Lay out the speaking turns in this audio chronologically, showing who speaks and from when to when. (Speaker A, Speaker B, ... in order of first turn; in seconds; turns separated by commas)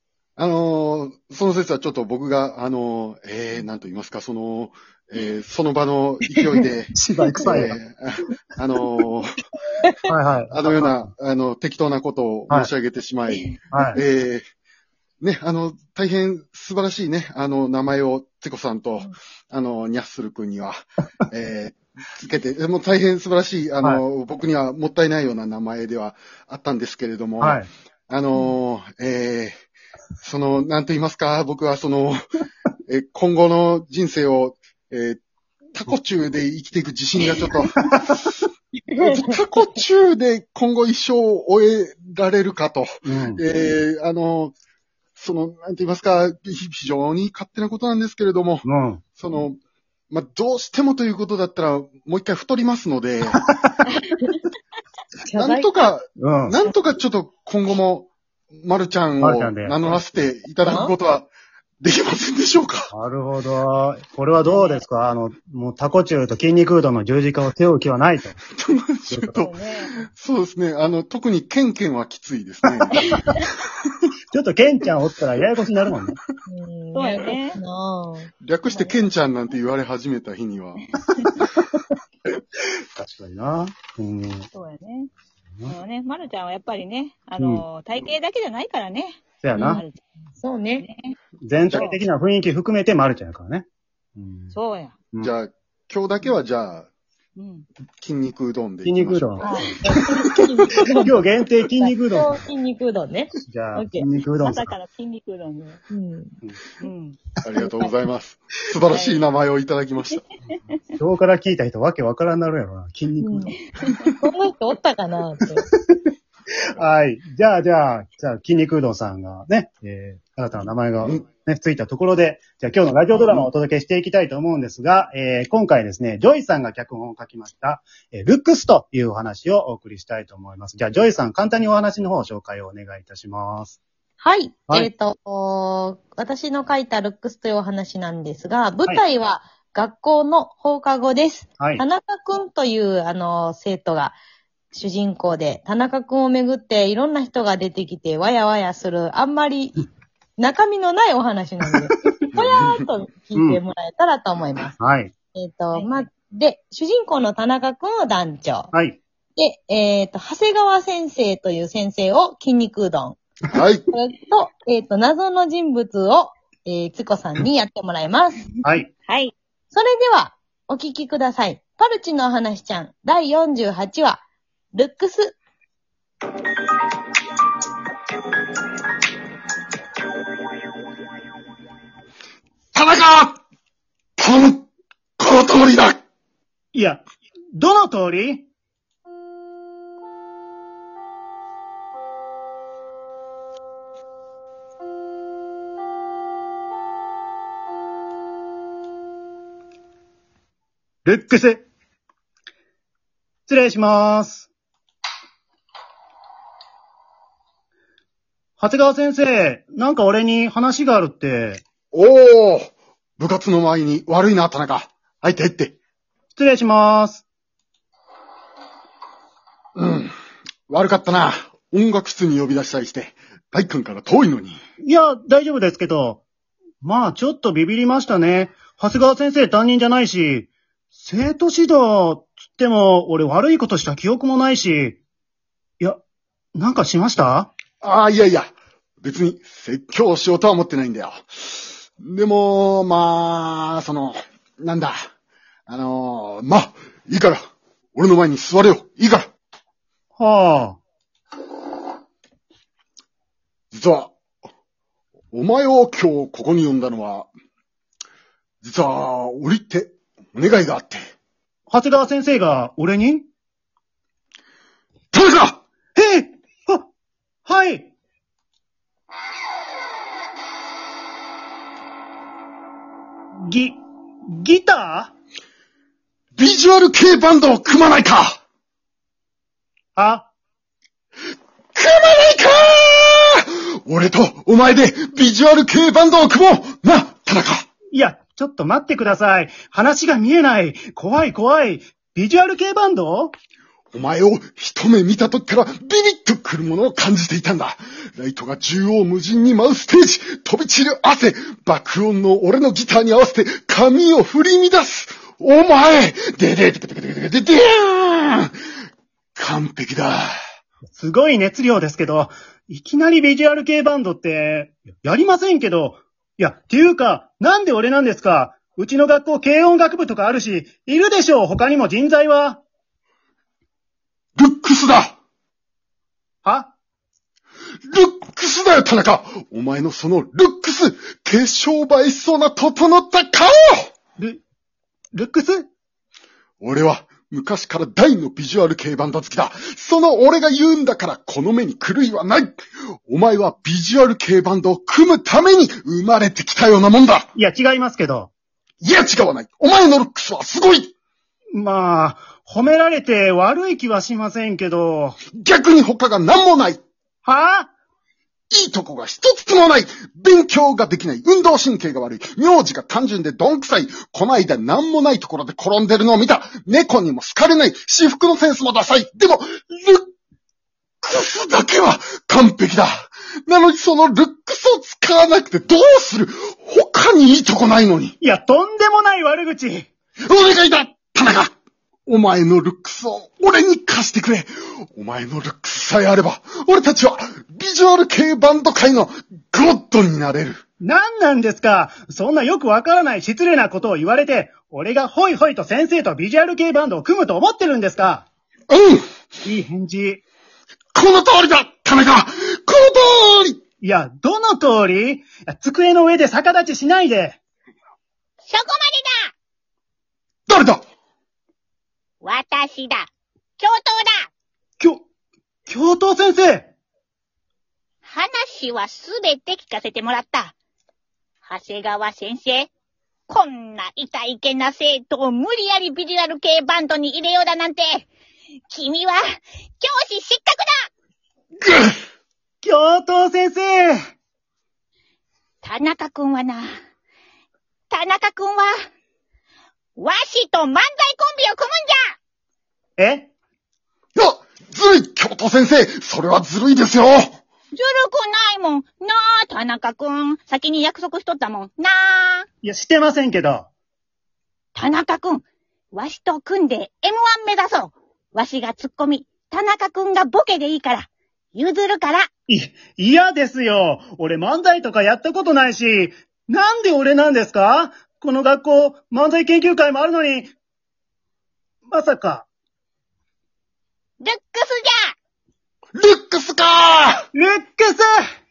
Speaker A: 0.4-9.3, Speaker B: 6.9-7.8, Speaker B: 10.1-11.1, Speaker A: 10.5-14.4, Speaker B: 13.7-14.0, Speaker A: 15.2-29.6, Speaker B: 27.4-27.7, Speaker A: 30.2-32.2, Speaker A: 32.9-35.2, Speaker A: 35.7-38.2, Speaker A: 39.0-44.5, Speaker B: 43.0-43.4, Speaker A: 45.2-48.6, Speaker B: 48.6-49.0, Speaker A: 49.2-49.6, Speaker A: 50.1-53.4, Speaker C: 55.2-55.7, Speaker A: 55.3-61.3, Speaker B: 56.2-56.5, Speaker B: 59.2-60.0, Speaker C: 60.6-60.9, Speaker A: 61.8-62.9, Speaker B: 62.9-68.4, Speaker D: 64.5-64.8, Speaker A: 68.5-73.2, Speaker D: 69.3-69.9, Speaker B: 74.3-76.2, Speaker C: 76.5-78.3, Speaker D: 76.9-77.6, Speaker A: 78.4-80.8, Speaker D: 78.7-79.0, Speaker D: 81.0-81.4, Speaker B: 83.0-84.5, Speaker D: 84.5-85.1, Speaker D: 85.6-90.0, Speaker B: 87.4-87.6, Speaker B: 89.4-89.8, Speaker C: 90.4-90.9, Speaker D: 90.8-91.1, Speaker B: 91.4-93.7, Speaker D: 91.7-92.0, Speaker B: 94.2-94.5, Speaker D: 94.5-94.9, Speaker A: 95.2-96.9, Speaker D: 97.3-97.7, Speaker A: 98.0-99.5, Speaker B: 98.8-99.8, Speaker D: 99.4-100.2, Speaker C: 99.5-104.0, Speaker B: 101.0-102.4, Speaker B: 103.4-104.7, Speaker D: 104.4-105.8, Speaker C: 105.9-106.3, Speaker D: 106.8-107.2, Speaker A: 107.4-110.2, Speaker D: 108.9-109.2, Speaker B: 111.0-113.6, Speaker C: 113.2-113.6, Speaker D: 113.8-114.1, Speaker C: 114.2-115.7, Speaker B: 116.8-133.8, Speaker A: 123.2-123.5, Speaker C: 134.2-144.2, Speaker C: 144.7-154.8, Speaker B: 153.3-153.6, Speaker B: 154.8-155.1, Speaker C: 155.3-158.7, Speaker D: 155.7-156.0, Speaker B: 158.7-159.0, Speaker C: 159.4-163.2, Speaker A: 163.5-163.8, Speaker C: 163.9-168.5, Speaker B: 168.6-168.9, Speaker D: 169.1-169.3, Speaker C: 169.7-174.2, Speaker C: 174.7-175.4, Speaker A: 182.7-183.4, Speaker A: 184.2-184.7, Speaker A: 185.2-186.0, Speaker B: 186.7-187.0, Speaker B: 187.5-188.5, Speaker B: 201.0-201.7, Speaker B: 203.5-204.5, Speaker B: 208.6-211.6, Speaker A: 211.9-215.8, Speaker B: 216.3-217.2, Speaker A: 219.8-220.1, Speaker A: 220.7-224.6, Speaker B: 224.8-226.2, Speaker B: 226.8-235.0, Speaker B: 236.5-237.5, Speaker A: 237.8-241.3, Speaker A: 242.0-245.0, Speaker A: 245.7-247.4, Speaker A: 247.9-249.3, Speaker B: 250.2-250.8, Speaker A: 253.7-254.1, Speaker A: 255.3-257.3, Speaker A: 258.6-261.1, Speaker B: 261.7-263.2, Speaker A: 265.1-265.6, Speaker B: 265.9-266.8, Speaker B: 267.4-267.9, Speaker B: 273.4-275.1, Speaker A: 276.4-278.3, Speaker B: 279.9-280.3, Speaker A: 281.7-287.6, Speaker B: 287.9-293.3, Speaker A: 293.9-308.5, Speaker A: 309.4-310.3, Speaker B: 310.9-322.6, Speaker A: 324.4-325.1, Speaker B: 326.4-326.7, Speaker A: 327.9-333.9, Speaker B: 335.1-335.6, Speaker A: 336.6-347.3, Speaker B: 347.3-348.3, Speaker A: 348.8-350.9, Speaker B: 351.5-355.2, Speaker A: 355.3-356.8, Speaker B: 357.2-357.7, Speaker A: 358.5-370.1, Speaker A: 371.0-378.1, Speaker B: 378.2-379.9, Speaker A: 380.2-381.5, Speaker A: 382.1-390.6, Speaker B: 390.8-398.3, Speaker A: 398.7-399.1, Speaker B: 399.4-400.2, Speaker A: 400.9-403.6, Speaker B: 403.8-407.4, Speaker D: 408.4-409.3, Speaker A: 410.5-410.8, Speaker D: 412.2-413.1, Speaker D: 413.6-414.3, Speaker B: 414.8-415.0, Speaker B: 415.7-416.7, Speaker D: 418.0-420.5, Speaker D: 421.4-422.7, Speaker D: 423.3-428.1, Speaker D: 428.7-429.2, Speaker D: 429.8-430.9, Speaker A: 431.6-431.9, Speaker B: 432.6-434.0, Speaker D: 435.6-436.7, Speaker D: 437.9-438.7, Speaker D: 440.0-442.1, Speaker B: 443.0-443.3, Speaker A: 444.1-447.4, Speaker D: 447.7-452.5, Speaker B: 452.6-453.7, Speaker D: 454.8-462.3, Speaker B: 462.5-470.5, Speaker B: 471.9-472.5, Speaker D: 474.2-475.1, Speaker A: 475.9-477.2, Speaker B: 477.3-478.1